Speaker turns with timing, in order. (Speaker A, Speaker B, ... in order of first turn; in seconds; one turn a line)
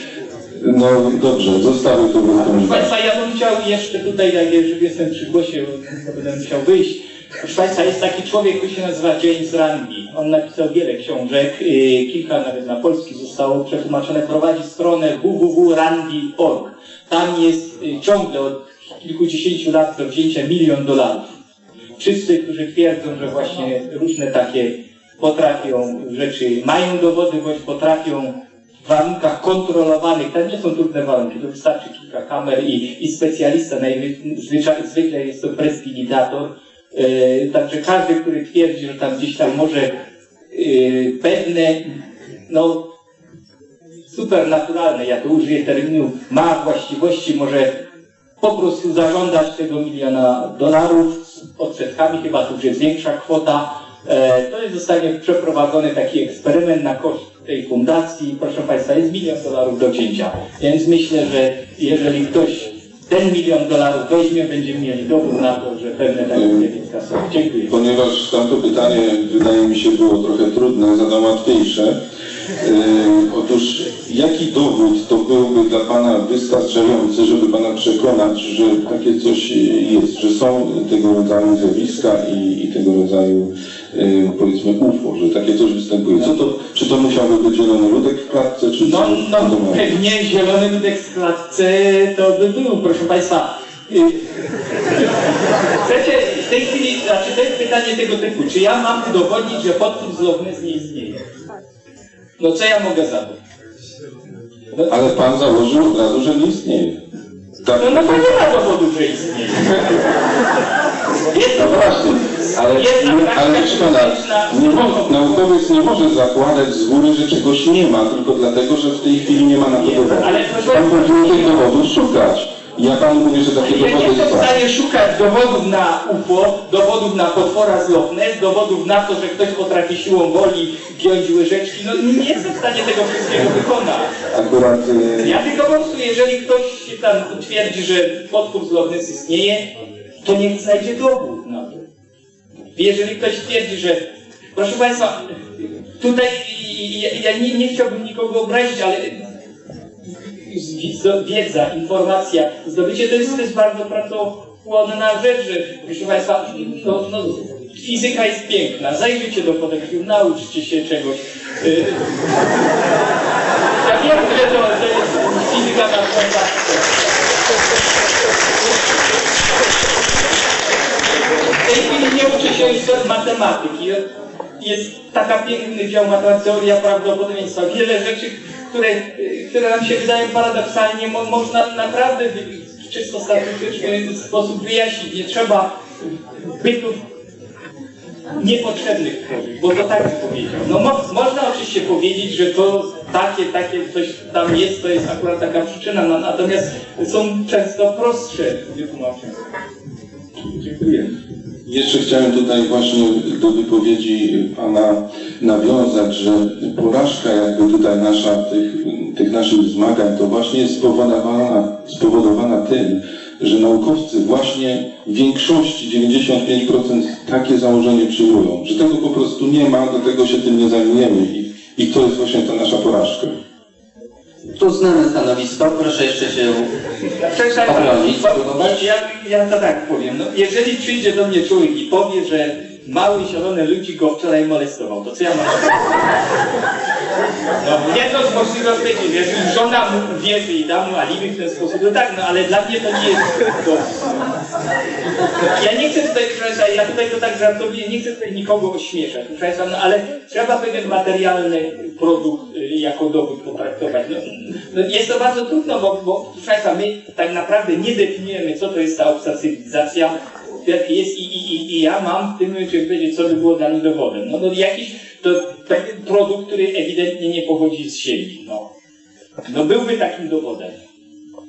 Speaker A: 0.6-2.9
Speaker B: 2.3-21.4
Speaker B: 22.0-40.0
Speaker B: 40.5-42.9
Speaker B: 44.1-47.8
Speaker B: 48.4-67.7
Speaker A: 66.3-66.7
Speaker A: 67.7-72.0
Speaker A: 72.6-90.0
Speaker B: 88.8-94.2
Speaker B: 95.8-101.2
Speaker B: 102.4-103.4
Speaker A: 104.9-107.0
Speaker A: 107.6-108.6
Speaker B: 107.8-110.0
Speaker A: 109.6-110.0
Speaker B: 111.3-115.4
Speaker A: 111.4-124.5
Speaker B: 119.7-121.7
Speaker B: 123.6-134.1
Speaker A: 134.3-135.4
Speaker B: 135.2-141.8
Speaker B: 142.7-149.3
Speaker B: 150.4-162.1
Speaker B: 163.8-166.9
Speaker B: 171.6-185.8
Speaker B: 186.6-187.0
Speaker B: 188.3-199.4
Speaker B: 200.6-201.1
Speaker A: 201.6-223.4
Speaker C: 224.5-226.7
Speaker B: 227.2-236.2
Speaker C: 227.7-228.8
Speaker B: 237.6-244.1
Speaker B: 245.4-268.7
Speaker B: 269.4-270.8